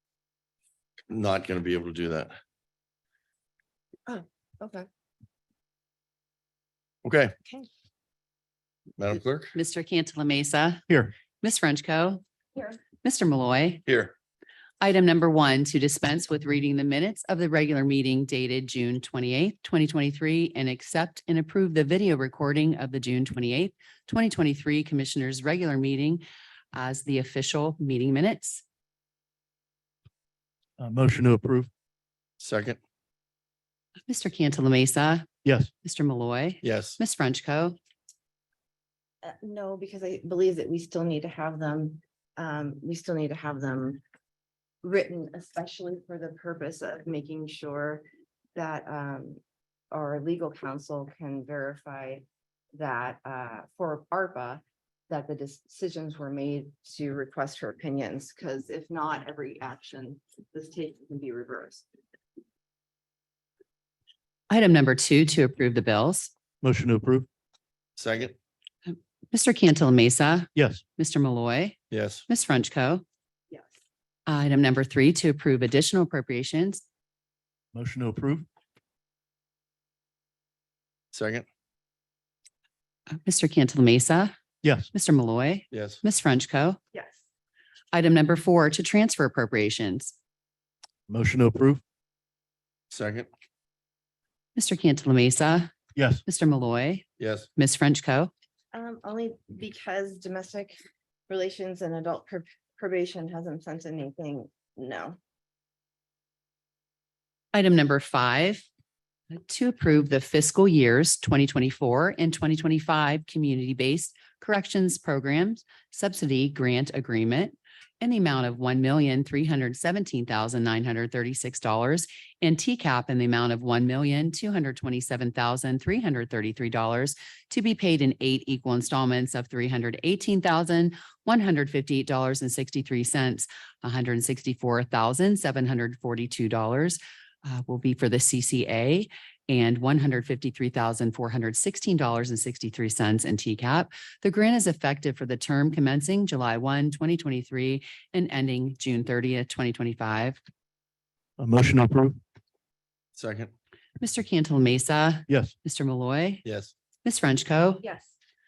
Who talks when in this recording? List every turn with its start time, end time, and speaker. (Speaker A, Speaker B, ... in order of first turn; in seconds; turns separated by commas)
Speaker A: 1.1-2.3, Speaker B: 4.1-4.9, Speaker A: 7.0-7.3, Speaker A: 9.0-9.5, Speaker C: 9.5-10.9, Speaker C: 11.4-12.2, Speaker C: 13.0-13.8, Speaker A: 13.9-14.1, Speaker C: 14.8-28.6, Speaker D: 30.8-31.7, Speaker A: 32.4-32.8, Speaker C: 34.1-35.3, Speaker D: 35.4-35.7, Speaker C: 35.8-37.8, Speaker A: 36.6-37.0, Speaker B: 39.2-44.0, Speaker B: 44.8-49.4, Speaker B: 49.9-61.9, Speaker C: 64.5-66.3, Speaker D: 66.6-67.3, Speaker A: 68.0-68.3, Speaker C: 68.8-73.0, Speaker D: 70.5-70.8, Speaker A: 71.9-72.2, Speaker C: 74.3-76.8, Speaker D: 77.7-78.5, Speaker A: 81.1-81.5, Speaker C: 83.2-84.3, Speaker D: 84.6-84.9, Speaker C: 84.9-86.8, Speaker A: 85.7-86.0, Speaker B: 86.9-87.2, Speaker C: 87.9-90.1, Speaker D: 91.1-91.8, Speaker A: 92.9-93.3, Speaker C: 94.5-95.7, Speaker D: 96.0-96.2, Speaker C: 96.2-98.3, Speaker A: 97.2-97.5, Speaker B: 98.7-100.8, Speaker B: 101.3-105.2, Speaker C: 107.5-108.7, Speaker C: 109.4-150.4, Speaker D: 151.4-152.2, Speaker A: 153.2-153.5, Speaker C: 154.0-156.4, Speaker A: 156.4-156.7, Speaker C: 157.0-157.8, Speaker B: 157.8-158.1